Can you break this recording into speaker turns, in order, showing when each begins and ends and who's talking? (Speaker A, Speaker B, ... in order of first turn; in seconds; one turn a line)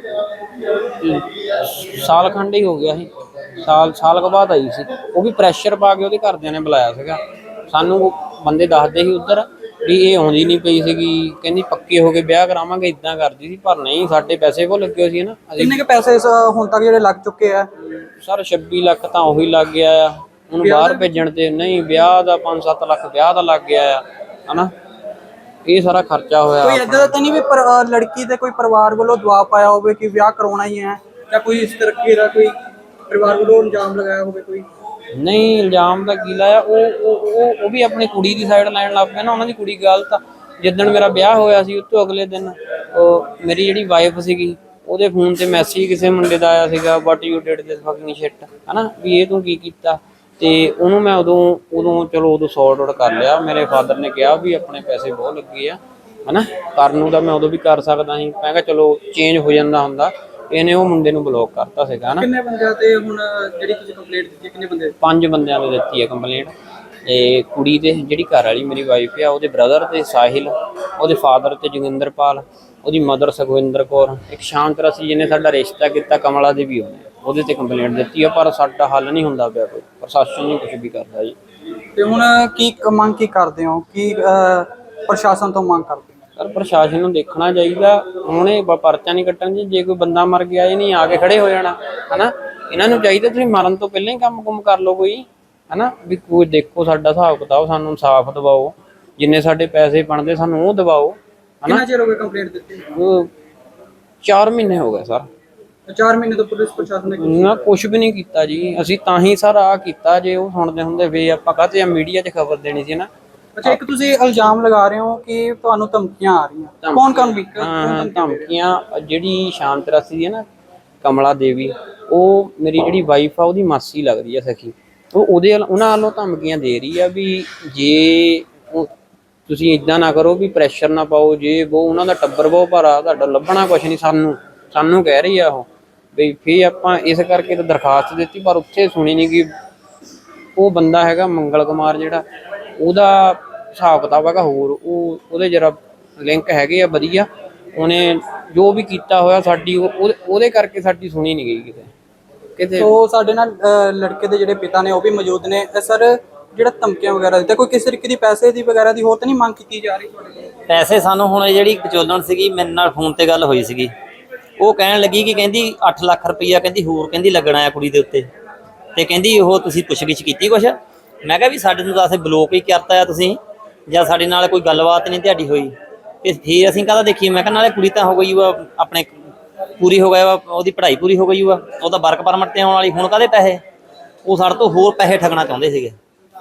Speaker A: 0.7-15.8
Speaker B: 15.6-17.7
Speaker A: 18.0-24.7
Speaker B: 20.6-21.1
Speaker A: 25.6-27.1
Speaker B: 26.6-32.6
Speaker B: 33.1-34.6
Speaker A: 35.1-62.3
Speaker B: 62.2-64.9
Speaker A: 65.0-66.5
Speaker A: 67.0-81.4
Speaker B: 82.0-86.1
Speaker A: 86.4-101.8
Speaker B: 101.7-102.9
Speaker A: 102.9-103.3
Speaker A: 104.2-105.3
Speaker B: 105.9-107.6
Speaker A: 107.2-113.1
Speaker B: 113.6-118.4
Speaker A: 116.8-120.4
Speaker A: 121.0-128.9
Speaker A: 129.5-139.5
Speaker A: 140.6-142.2
Speaker A: 142.8-151.9
Speaker A: 152.6-152.9
Speaker B: 152.8-160.5
Speaker C: 160.7-163.9
Speaker C: 164.6-168.3
Speaker C: 168.9-175.7
Speaker C: 176.2-179.1
Speaker C: 179.8-183.6
Speaker C: 184.2-186.0